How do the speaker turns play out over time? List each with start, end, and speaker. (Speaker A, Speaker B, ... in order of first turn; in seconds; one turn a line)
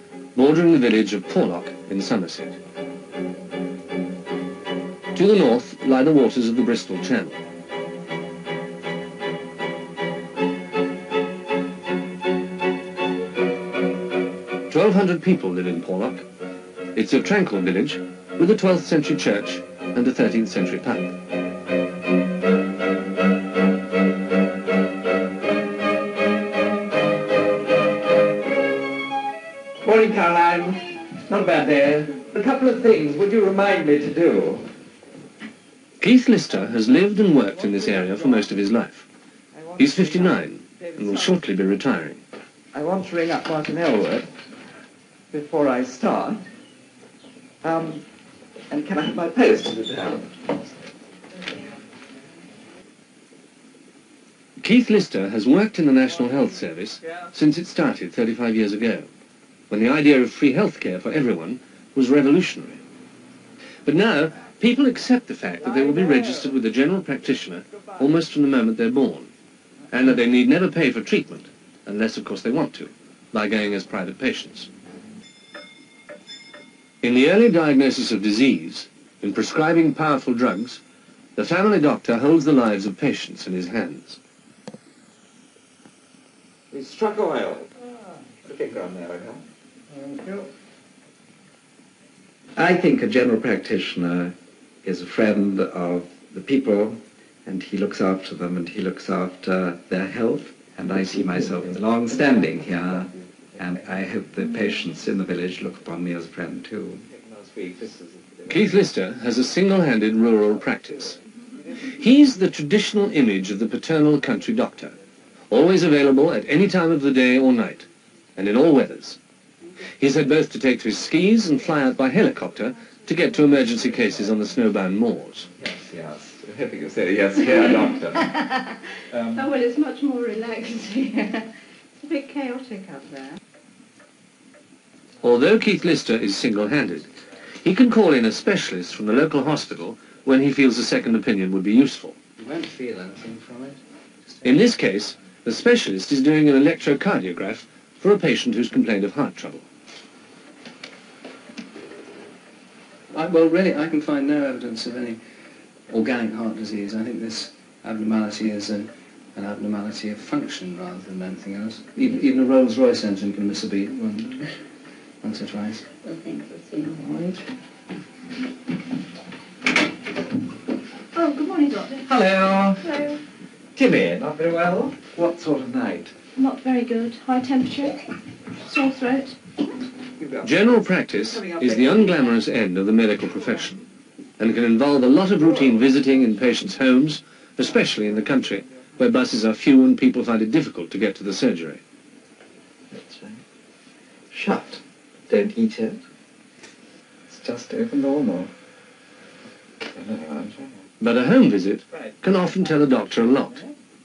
Speaker A: 0.3-2.6
Speaker A: 5.1-7.4
Speaker A: 14.7-16.2
Speaker A: 16.9-21.1
Speaker B: 29.8-34.7
Speaker A: 36.0-39.1
Speaker B: 37.7-38.4
Speaker B: 39.5-41.4
Speaker A: 39.8-42.2
Speaker B: 42.7-44.3
Speaker B: 45.3-46.4
Speaker B: 47.6-48.0
Speaker B: 48.7-50.4
Speaker A: 54.6-59.1
Speaker A: 59.7-62.8
Speaker A: 63.8-69.3
Speaker A: 69.9-74.7
Speaker A: 77.0-80.8
Speaker A: 81.3-84.2
Speaker B: 86.7-87.7
Speaker B: 88.4-90.5
Speaker B: 92.6-108.8
Speaker A: 108.5-111.2
Speaker A: 111.8-114.9
Speaker A: 115.5-119.2
Speaker A: 120.0-125.5
Speaker B: 125.6-128.5
Speaker B: 129.1-129.5
Speaker C: 129.3-131.5
Speaker C: 132.0-133.4
Speaker A: 135.2-137.1
Speaker A: 137.6-142.2
Speaker D: 142.4-143.8
Speaker A: 144.4-149.6
Speaker D: 153.1-155.2
Speaker D: 155.9-164.5
Speaker D: 165.2-165.9
Speaker C: 166.0-167.0
Speaker B: 166.9-167.4
Speaker C: 171.1-172.0
Speaker B: 171.9-173.2
Speaker C: 172.9-173.1
Speaker B: 173.8-176.1
Speaker C: 176.3-178.0
Speaker C: 178.6-179.3
Speaker B: 180.2-182.1
Speaker A: 180.4-183.8
Speaker A: 184.4-191.8
Speaker B: 192.9-193.4
Speaker B: 194.3-196.0
Speaker B: 197.3-198.5
Speaker B: 199.9-200.7
Speaker A: 201.0-203.6
Speaker B: 201.9-203.7